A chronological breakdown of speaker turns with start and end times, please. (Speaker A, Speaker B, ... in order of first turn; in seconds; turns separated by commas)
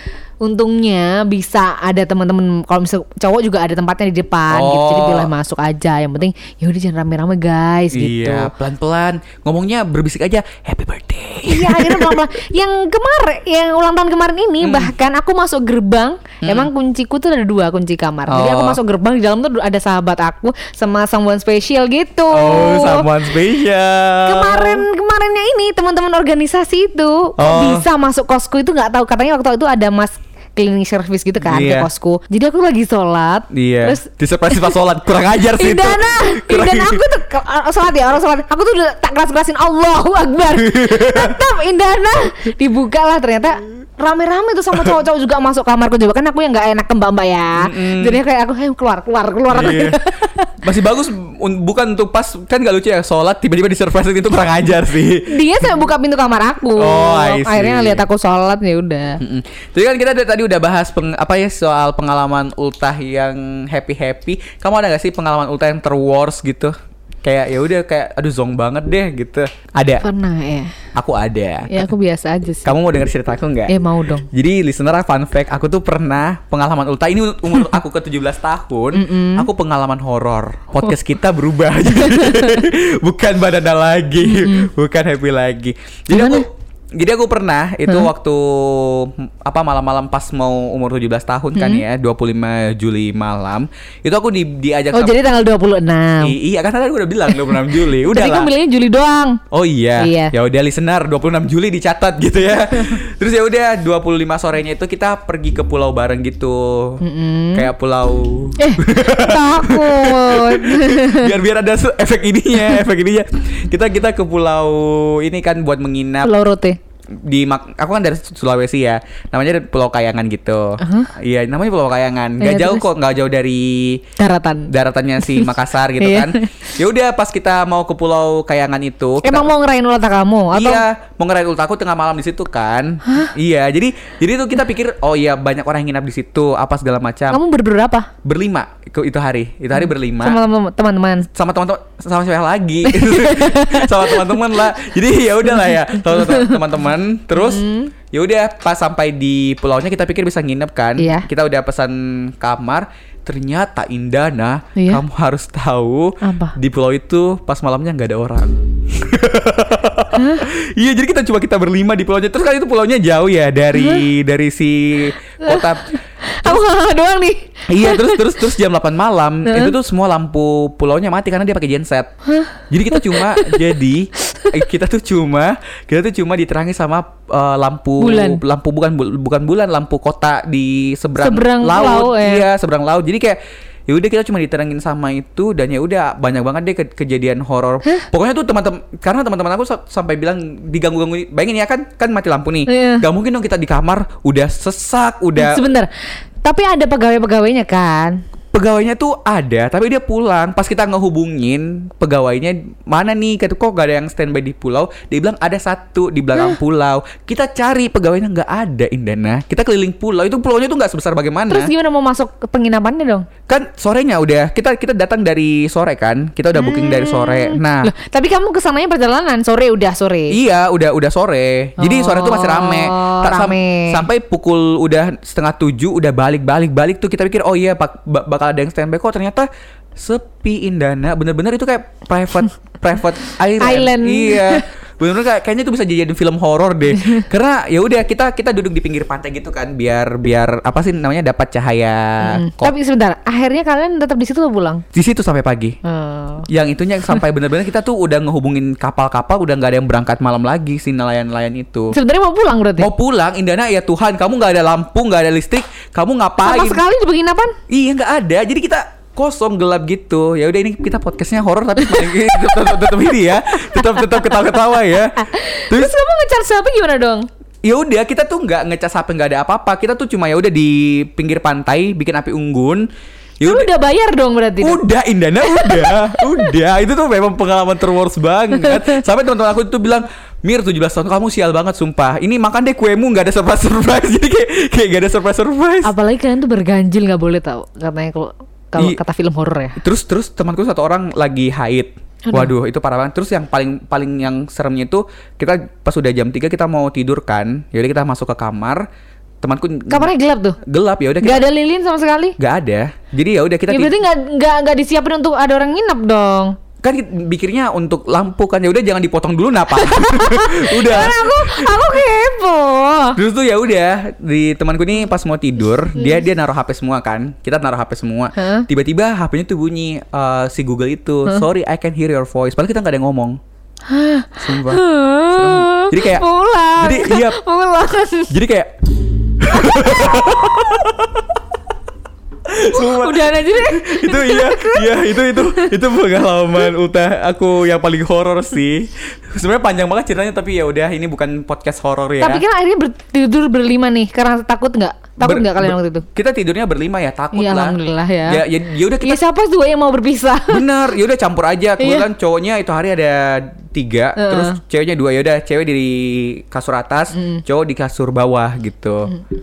Speaker A: 0.4-8.5, Speaker B: 4.5-5.3, Speaker B: 7.9-12.2, Speaker A: 11.5-23.1, Speaker B: 14.6-14.9, Speaker B: 16.4-16.7, Speaker B: 18.3-18.8, Speaker B: 22.3-24.9, Speaker A: 24.3-34.8, Speaker B: 27.4-27.8, Speaker B: 31.4-31.9, Speaker B: 33.5-37.0, Speaker A: 35.5-50.5, Speaker B: 40.6-41.3, Speaker B: 47.6-48.2, Speaker B: 49.5-50.0, Speaker B: 50.6-55.8, Speaker A: 55.3-59.2, Speaker B: 56.8-58.0, Speaker B: 59.2-70.0, Speaker A: 70.0-70.8, Speaker B: 71.0-71.9, Speaker A: 71.7-72.8, Speaker B: 72.6-73.8, Speaker A: 73.7-74.3, Speaker B: 74.3-95.2, Speaker A: 78.9-79.5, Speaker A: 81.9-82.7, Speaker A: 84.2-84.7, Speaker A: 86.1-86.5, Speaker A: 87.9-88.1, Speaker A: 91.5-91.8, Speaker A: 94.9-96.3, Speaker B: 96.2-98.5, Speaker A: 97.3-99.4, Speaker B: 99.5-107.0, Speaker A: 100.0-100.3, Speaker A: 107.0-107.7, Speaker B: 107.5-116.3, Speaker A: 108.6-111.3, Speaker A: 112.5-112.8, Speaker A: 116.2-116.8, Speaker B: 117.2-124.0, Speaker A: 120.8-121.1, Speaker A: 122.4-122.9, Speaker A: 124.2-126.7, Speaker B: 124.7-129.5, Speaker A: 129.2-130.8, Speaker B: 130.5-137.4, Speaker A: 137.3-138.1, Speaker B: 138.2-140.4, Speaker A: 139.8-141.3, Speaker B: 141.3-165.9, Speaker A: 142.9-144.7, Speaker A: 145.5-146.7, Speaker A: 147.3-147.9, Speaker A: 151.0-151.3, Speaker A: 154.8-155.0, Speaker A: 156.2-156.6, Speaker A: 160.2-160.4, Speaker A: 163.7-164.1, Speaker A: 165.4-168.5, Speaker B: 167.7-172.1, Speaker A: 169.4-169.7, Speaker A: 172.2-173.7, Speaker B: 172.7-195.6, Speaker A: 178.0-178.4, Speaker A: 181.2-182.5, Speaker A: 192.7-193.0, Speaker A: 195.4-195.9, Speaker A: 196.4-198.2, Speaker B: 198.5-211.7, Speaker A: 206.3-206.6, Speaker A: 211.5-213.3, Speaker B: 213.5-217.9, Speaker A: 216.5-220.4, Speaker B: 220.3-242.7, Speaker A: 221.8-224.1, Speaker A: 233.6-234.6, Speaker A: 237.0-237.2, Speaker A: 242.2-244.8, Speaker B: 244.9-245.8, Speaker A: 245.8-246.5, Speaker B: 246.5-251.9, Speaker A: 251.9-252.9, Speaker B: 252.8-256.8, Speaker A: 256.4-257.6, Speaker B: 257.7-265.9, Speaker A: 261.8-267.2, Speaker B: 267.6-272.9, Speaker B: 273.4-273.7, Speaker A: 273.4-274.8, Speaker B: 274.6-285.9, Speaker A: 275.4-276.6, Speaker A: 278.5-279.0, Speaker A: 285.8-289.8, Speaker B: 289.8-298.8, Speaker A: 292.2-292.5, Speaker B: 299.4-300.1, Speaker A: 299.9-300.6, Speaker B: 300.6-301.5, Speaker A: 301.2-302.4, Speaker B: 302.4-303.9, Speaker A: 303.7-306.6, Speaker B: 306.8-311.9, Speaker A: 309.7-313.2, Speaker B: 313.2-323.4, Speaker A: 315.9-316.2, Speaker A: 318.4-318.7, Speaker A: 323.9-328.3, Speaker B: 324.4-327.4, Speaker B: 328.3-328.7, Speaker B: 329.4-331.2, Speaker A: 329.5-330.3, Speaker B: 332.5-342.4, Speaker A: 332.6-335.9, Speaker A: 336.4-336.7, Speaker A: 342.2-346.1, Speaker B: 345.2-349.2, Speaker A: 347.3-350.7, Speaker B: 350.5-359.1, Speaker A: 351.8-352.1, Speaker A: 354.2-354.6, Speaker A: 357.1-357.4